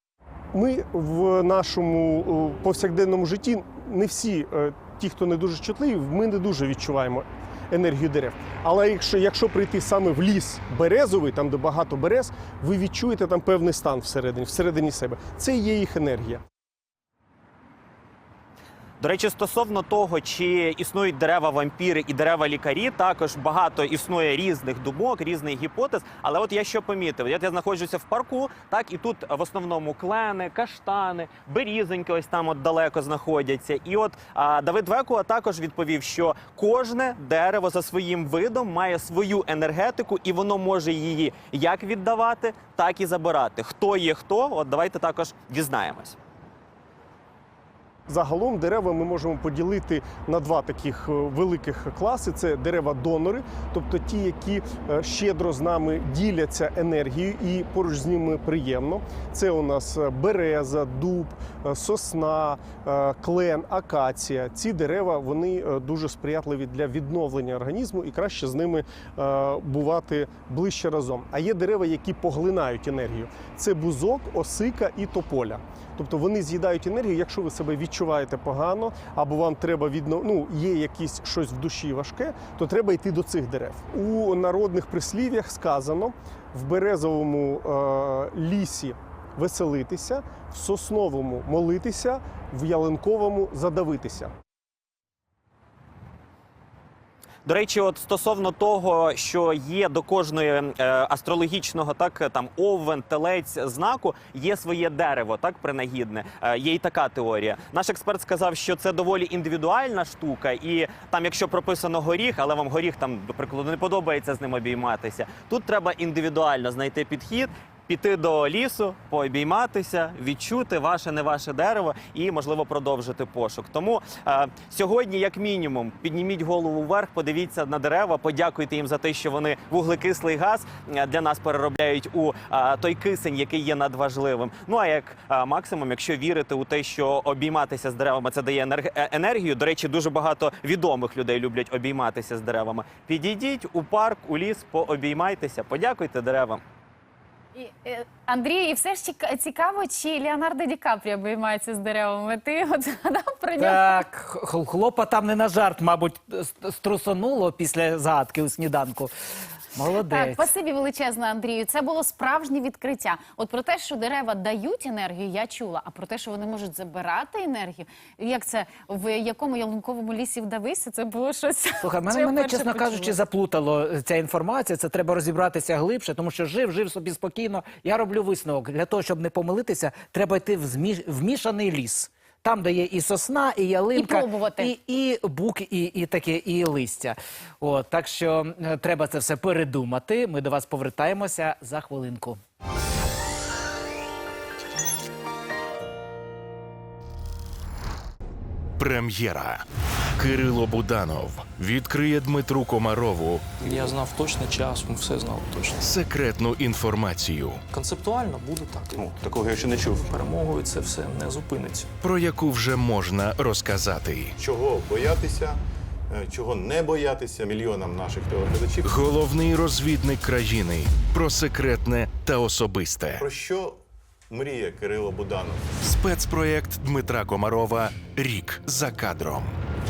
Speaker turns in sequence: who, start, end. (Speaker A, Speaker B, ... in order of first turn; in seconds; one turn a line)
Speaker A: 0.5-16.4
Speaker B: 19.0-46.2
Speaker A: 48.1-94.3
Speaker B: 97.5-146.6
Speaker C: 147.5-154.0
Speaker D: 153.6-159.1
Speaker D: 159.7-160.5
Speaker C: 160.0-173.2
Speaker D: 171.8-192.4
Speaker C: 183.9-184.7
Speaker E: 198.8-199.6
Speaker E: 200.2-203.4
Speaker F: 203.6-205.8
Speaker E: 205.8-207.6
Speaker F: 207.7-211.9
Speaker G: 208.9-210.1
Speaker E: 212.0-214.3
Speaker G: 214.4-215.6
Speaker G: 216.1-219.0
Speaker E: 218.8-223.2
Speaker G: 223.2-223.8
Speaker G: 224.3-225.7
Speaker E: 225.8-229.6